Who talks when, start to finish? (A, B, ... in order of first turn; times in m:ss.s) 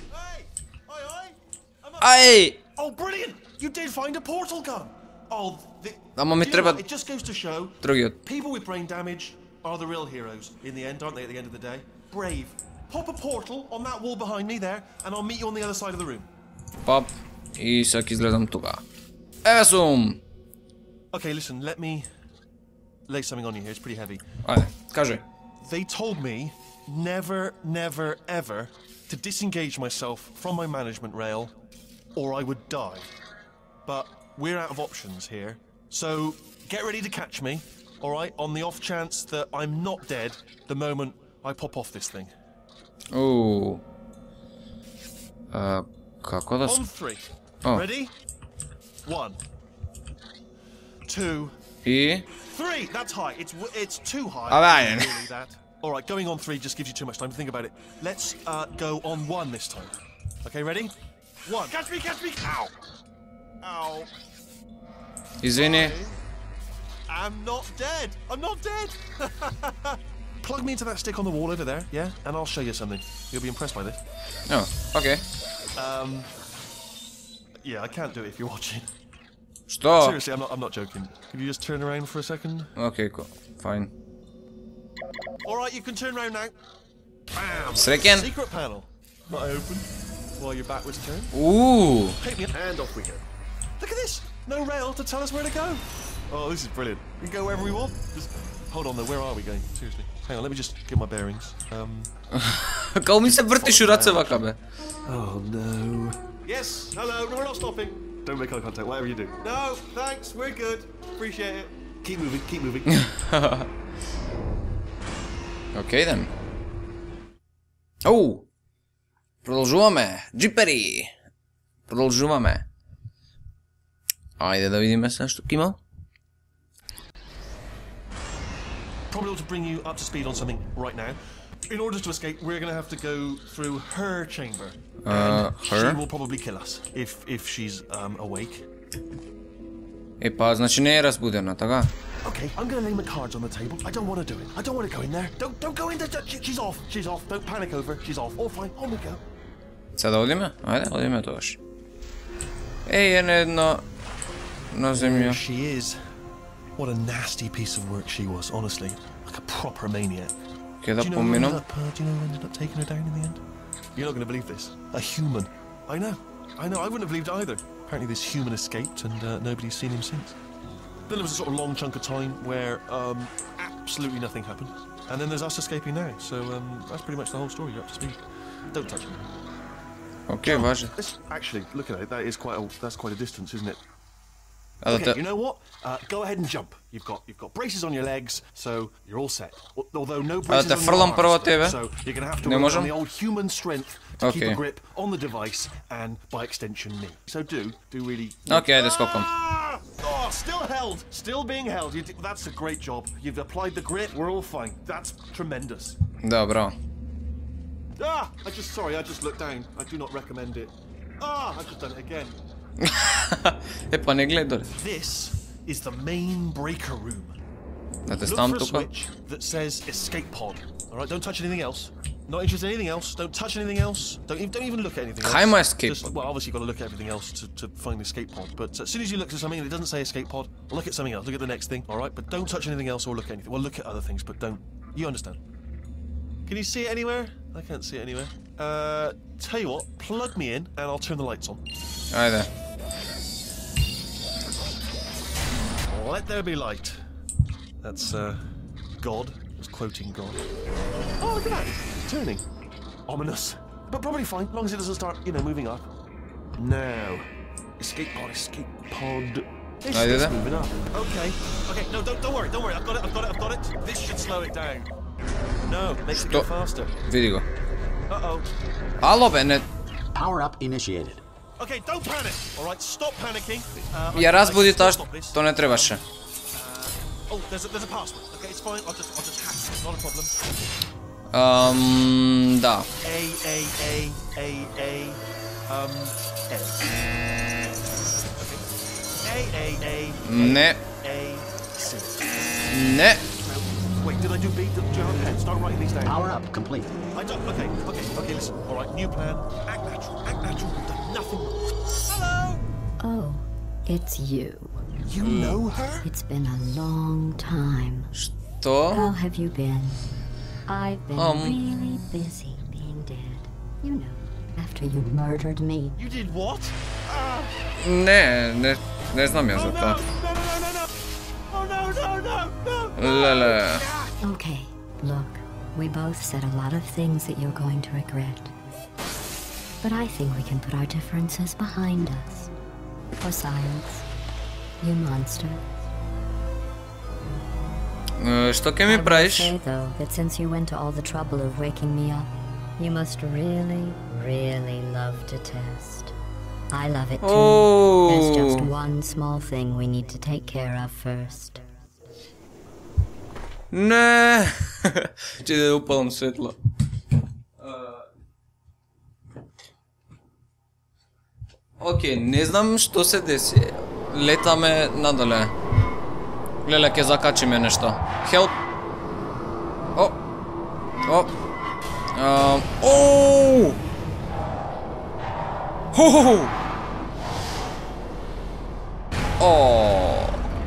0:00.1-0:16.3 A
0:02.0-0:02.6 B
0:06.2-0:06.8 B
0:07.8-0:08.2 B
0:16.8-0:18.8 B
0:19.4-0:20.2 B
0:21.1-0:22.1 A
0:23.1-0:24.2 A
0:24.4-0:25.2 B
0:25.6-0:31.5 A
0:32.2-0:33.1 A
0:33.8-0:42.3 A
0:43.1-0:43.8 B
0:45.5-0:46.8 B
0:46.6-0:48.1 A
0:49.0-0:49.4 A
0:51.1-0:51.5 A
0:51.8-0:52.3 B
0:52.3-1:00.9 A
0:54.5-0:55.3 B
1:01.4-1:02.8 A
1:03.6-1:04.1 A
1:05.4-1:05.9 B
1:05.5-1:06.2 A
1:07.1-1:14.0 A
1:14.5-1:15.2 B
1:15.8-1:16.3 A
1:17.6-1:18.9 A
1:19.7-1:20.2 B
1:19.9-1:22.7 A
1:22.8-1:23.9 B
1:25.4-1:26.5 A
1:27.3-1:31.3 A
1:27.8-1:28.3 B
1:31.3-1:32.2 B
1:32.2-1:33.2 A
1:33.8-1:42.1 A
1:42.3-1:44.6 B
1:43.2-1:44.4 A
1:45.0-1:53.0 A
1:53.0-1:53.7 B
1:55.7-1:56.3 B
1:58.0-1:58.4 B
1:59.4-2:01.1 B
2:01.9-2:02.6 B
2:04.4-2:05.8 B
2:09.1-2:18.6 A
2:15.0-2:16.0 B
2:20.2-2:21.9 B
2:22.2-2:29.2 A
2:30.0-2:31.6 B
2:32.8-2:33.8 B
2:34.7-2:35.4 B
2:34.9-2:36.0 A
2:36.8-2:40.3 A
2:40.8-2:41.6 B
2:41.0-2:43.4 A
2:44.0-2:50.4 A
2:51.1-2:58.2 A
2:58.7-2:59.2 A
3:00.3-3:00.9 B
3:00.4-3:03.8 A
3:04.8-3:05.2 B
3:04.9-3:26.0 A
3:10.5-3:11.8 B
3:12.4-3:12.9 B
3:14.2-3:14.6 B
3:18.5-3:19.3 B
3:26.2-3:26.7 B
3:28.0-3:32.4 A
3:32.8-3:34.7 B
3:34.7-3:37.4 A
3:38.0-3:38.9 B
3:38.2-3:55.4 A
3:45.2-3:46.1 B
3:56.5-4:01.6 A
4:02.1-4:02.5 B
4:05.8-4:07.0 A
4:07.8-4:08.4 A
4:09.0-4:10.4 A
4:11.2-4:12.4 A
4:13.1-4:15.9 A
4:16.6-4:24.9 A
4:19.9-4:20.4 B
4:25.6-4:26.9 A
4:26.1-4:26.5 B
4:27.1-4:27.4 B
4:28.1-4:28.5 A
4:29.0-4:29.6 B
4:30.1-4:31.2 C
4:31.6-4:40.3 A
4:34.1-4:36.0 B
4:41.3-4:42.9 B
4:43.0-4:47.0 A
4:47.9-4:48.7 A
4:49.2-4:56.2 A
4:50.2-4:50.8 B
4:52.7-4:53.2 B
4:56.0-4:57.0 C
4:57.1-5:02.6 A
5:03.0-5:04.8 D
5:05.0-5:06.0 A
5:05.2-5:05.6 B
5:06.0-5:08.1 D
5:08.1-5:09.1 B
5:08.9-5:10.0 D
5:10.6-5:16.0 D
5:11.2-5:11.6 B
5:16.0-5:17.5 A
5:17.8-5:20.0 B
5:19.5-5:20.9 A
5:21.5-5:24.1 A
5:23.0-5:23.8 B
5:24.2-5:28.5 D
5:29.8-5:32.5 D
5:33.2-5:34.0 D
5:34.8-5:35.6 D
5:38.2-5:39.5 B
5:38.8-5:46.1 D
5:46.7-5:51.6 D
5:47.2-5:48.7 B
5:53.7-5:56.6 B
5:57.6-5:58.0 B
6:01.8-6:05.5 B
6:06.6-6:08.5 B
6:11.0-6:11.3 B
6:12.1-6:13.8 B
6:15.9-6:16.5 B
6:19.4-6:20.4 B